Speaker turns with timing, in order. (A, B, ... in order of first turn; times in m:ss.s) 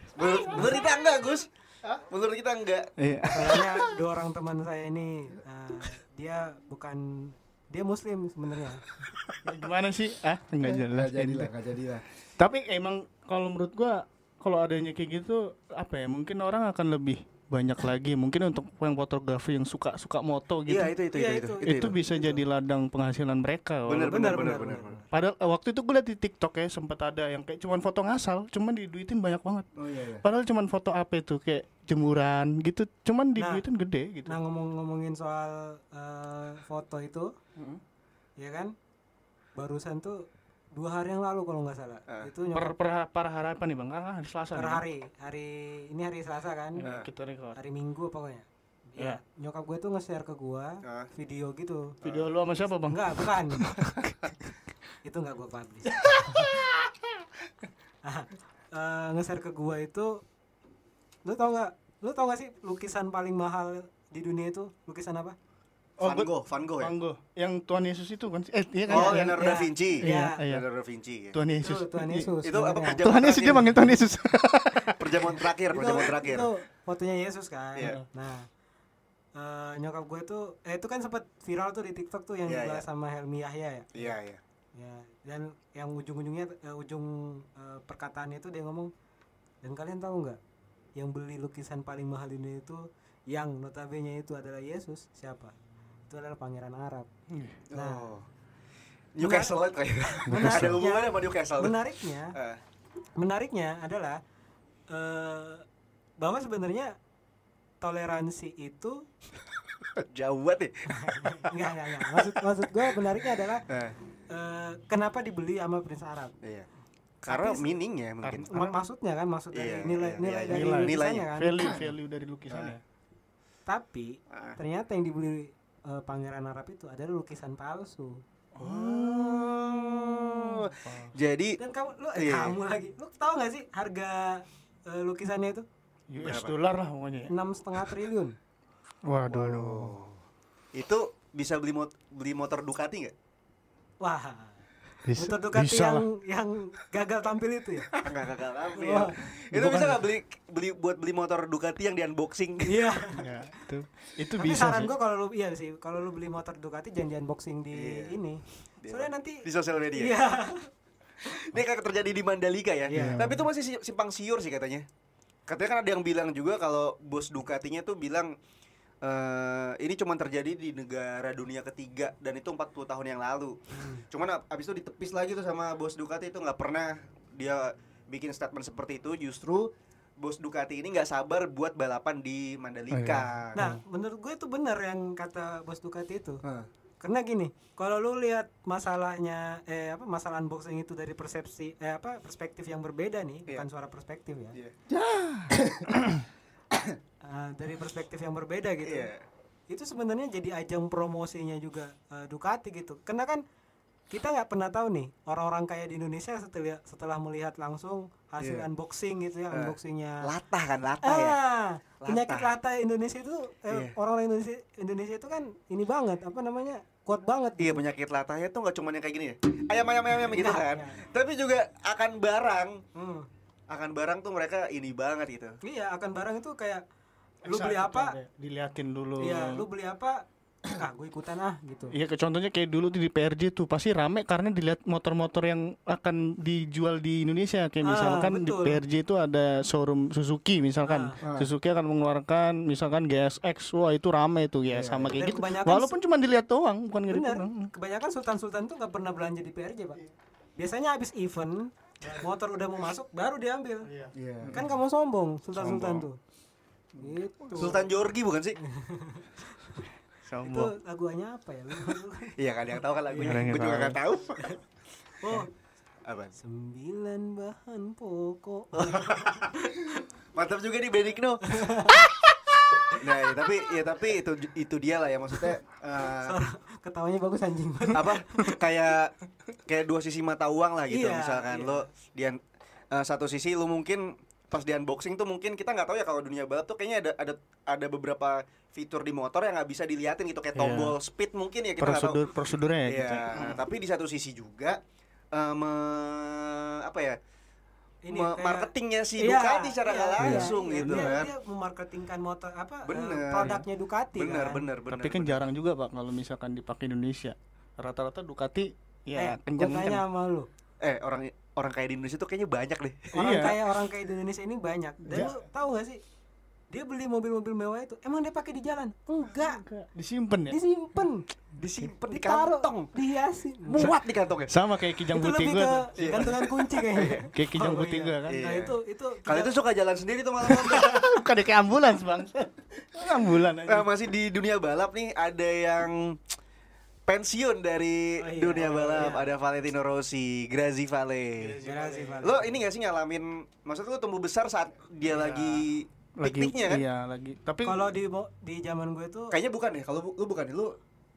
0:00.1-0:02.9 A
0:03.0-0:03.9 B
0:03.3-0:08.9 C
0:09.1-0:11.5 B
0:10.6-0:12.0 A
0:12.4-0:21.0 B
0:20.7-0:22.0 A
0:21.1-0:22.4 C
0:21.6-0:24.2 B
0:23.9-0:25.0 A
0:24.0-0:25.1 C
0:25.1-0:34.4 B
0:29.8-0:30.2 A
0:33.4-0:33.6 C
0:34.3-0:37.3 C
0:38.4-0:38.8 C
0:39.6-0:42.8 C
0:42.5-0:44.8 B
0:44.5-0:46.9 C
0:46.8-0:47.6 B
0:47.6-0:52.0 C
0:50.8-0:51.1 A
0:52.0-0:54.3 B
0:52.9-0:53.6 C
0:55.0-0:56.5 C
0:55.9-0:57.2 B
0:58.0-1:00.2 C
1:01.2-1:05.4 C
1:06.0-1:07.0 A
1:06.0-1:10.7 B
1:08.9-1:10.4 C
1:08.9-1:11.4 A
1:11.3-1:12.3 B
1:11.6-1:13.0 C
1:12.4-1:14.0 A
1:13.0-1:15.3 B
1:14.9-1:16.5 A
1:15.7-1:18.5 C
1:19.4-1:24.1 C
1:22.5-1:22.8 A
1:23.9-1:24.4 A
1:24.8-1:28.9 C
1:29.6-1:30.4 C
1:31.0-1:35.5 C
1:36.1-1:37.1 C
1:37.3-1:37.6 B
1:37.7-1:38.3 A
1:37.8-1:38.1 C
1:39.2-1:41.8 A
1:39.2-1:39.5 C
1:40.3-1:40.8 B
1:40.3-1:42.4 C
1:42.3-1:42.6 A
1:43.2-1:44.2 C
1:44.9-1:45.6 C
1:46.2-1:47.0 C
1:47.8-1:49.0 C
1:49.8-1:51.6 A
1:50.9-1:53.7 C
1:52.1-1:52.4 A
1:53.7-1:54.0 A
1:54.3-1:56.4 C
1:56.4-1:56.7 A
1:57.2-1:58.6 A
1:57.3-1:57.8 C
1:58.2-1:58.8 B
1:58.5-2:01.6 C
1:59.5-2:01.7 A
2:00.5-2:02.8 B
2:02.5-2:02.7 A
2:03.7-2:08.2 C
2:04.3-2:04.6 A
2:08.6-2:09.6 B
2:08.6-2:11.6 A
2:10.7-2:11.1 B
2:11.6-2:15.6 C
2:12.2-2:12.6 A
2:16.1-2:17.9 B
2:16.2-2:16.6 A
2:17.3-2:18.4 C
2:19.1-2:20.0 B
2:19.3-2:20.2 A
2:20.7-2:23.1 A
2:24.0-2:24.6 C
2:25.1-2:26.1 B
2:25.1-2:28.0 C
2:28.0-2:33.2 A
2:28.8-2:29.2 C
2:29.5-2:30.0 B
2:32.7-2:33.3 C
2:33.2-2:34.9 B
2:34.4-2:40.7 C
2:37.7-2:38.2 A
2:38.8-2:40.1 A
2:41.2-2:44.9 A
2:42.9-2:43.2 C
2:42.9-2:43.5 B
2:45.5-2:48.4 A
2:49.0-3:03.6 A
2:53.7-2:54.0 C
3:02.9-3:03.8 B
3:03.6-3:06.4 C
3:06.4-3:06.7 A
3:07.0-3:14.6 C
3:14.5-3:14.9 A
3:14.9-3:16.2 B
3:15.4-3:16.1 A
3:17.2-3:19.1 C
3:18.8-3:19.2 A
3:19.7-3:23.4 C
3:24.1-3:30.3 C
3:28.4-3:28.7 A
3:29.5-3:31.4 A
3:31.0-3:37.8 C
3:32.0-3:32.5 A
3:37.6-3:42.8 A
3:40.1-3:41.0 C
3:43.0-3:43.3 C
3:43.7-3:45.6 A
3:45.6-3:46.8 C
3:47.4-3:48.2 C
3:47.4-3:49.7 B
3:49.2-3:52.0 C
3:51.9-4:07.7 B
3:57.8-3:58.8 C
4:00.8-4:01.2 C
4:01.2-4:01.5 A
4:04.7-4:05.2 A
4:05.2-4:06.0 C
4:07.1-4:10.0 C
4:10.6-4:13.9 C
4:13.8-4:14.7 B
4:14.1-4:14.6 A
4:14.5-4:16.2 C
4:15.6-4:16.1 B
4:17.0-4:17.9 C
4:17.0-4:18.6 A
4:18.6-4:19.9 C
4:20.3-4:20.7 B
4:20.4-4:22.4 C
4:22.4-4:24.6 A
4:23.1-4:23.5 C
4:23.1-4:24.0 B
4:25.2-4:25.5 C
4:26.1-4:26.3 A
4:26.4-4:30.0 C
4:28.8-4:32.3 A
4:31.4-4:32.1 C
4:32.9-4:36.4 A
4:36.2-4:38.6 C
4:37.9-4:39.1 A
4:39.7-4:42.4 A
4:40.9-4:41.9 C
4:42.9-4:52.2 A
4:50.6-4:51.0 B
4:51.8-4:53.6 B
4:52.9-4:54.8 A
4:55.3-4:57.2 A
4:58.0-5:04.7 C
4:58.1-5:01.3 A
5:00.2-5:01.2 B
5:02.8-5:03.6 A
5:03.4-5:03.6 B
5:04.2-5:05.4 A
5:04.9-5:10.0 B
5:09.2-5:10.5 C
5:10.8-5:13.6 A
5:13.1-5:13.6 B
5:13.1-5:16.0 C
5:15.1-5:15.4 B
5:16.7-5:19.6 C
5:19.4-5:20.6 B
5:20.5-5:21.2 C
5:21.6-5:22.9 A
5:22.1-5:24.0 C
5:23.7-5:24.6 A
5:24.5-5:26.4 B
5:25.1-5:29.5 C
5:26.0-5:27.2 A
5:27.0-5:28.4 B
5:28.3-5:30.9 A
5:30.6-5:31.1 C
5:30.6-5:33.9 B
5:33.7-5:36.2 A
5:37.1-5:41.6 A
5:38.2-5:39.3 C
5:41.4-5:42.4 B
5:41.6-5:42.5 C
5:42.2-5:46.8 A
5:45.0-5:45.6 B
5:46.2-5:47.9 B
5:47.6-5:49.4 C
5:49.3-5:50.8 A